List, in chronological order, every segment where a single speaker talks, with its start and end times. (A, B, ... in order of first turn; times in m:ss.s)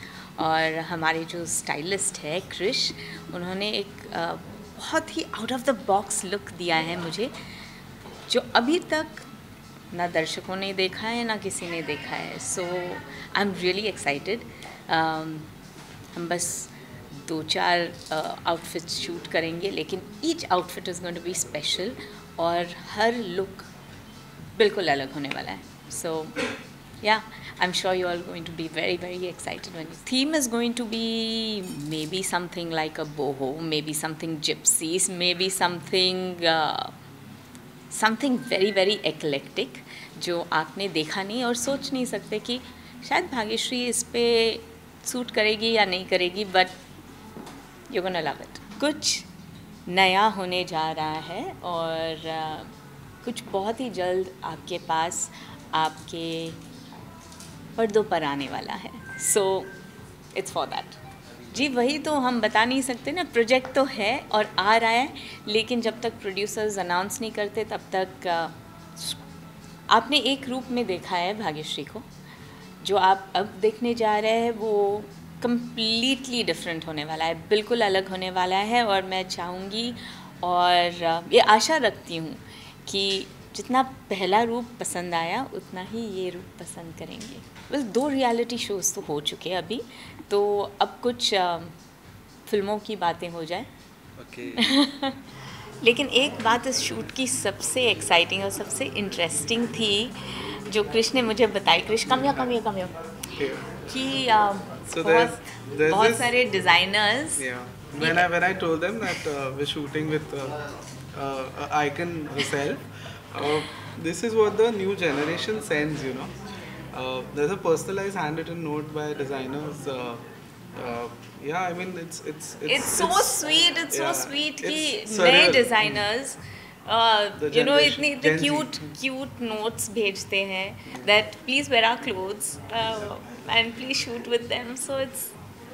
0:00.4-0:07.3 A
0:08.3-0:09.3 A
0:09.9-0:15.5 A
0:16.1-0:23.7 A
0:24.5-0:26.4 A
0:27.0-0:37.0 A
0:37.9-0:46.8 A
0:47.9-0:49.3 A
0:49.8-0:56.6 A
0:57.8-0:59.7 A
1:00.3-1:09.2 A
1:09.9-1:12.1 A
1:12.8-1:31.7 A
1:32.4-1:33.7 A
1:34.4-1:35.2 A
1:35.8-1:43.0 A
1:43.3-1:43.7 B
1:43.8-1:47.5 A
1:44.9-1:46.3 B
1:47.4-1:50.6 B
1:48.0-1:48.3 A
1:49.0-1:49.3 A
1:51.1-1:56.3 B
1:56.9-2:00.2 B
2:00.7-2:06.0 B
2:02.6-2:15.3 A
2:07.4-2:08.8 B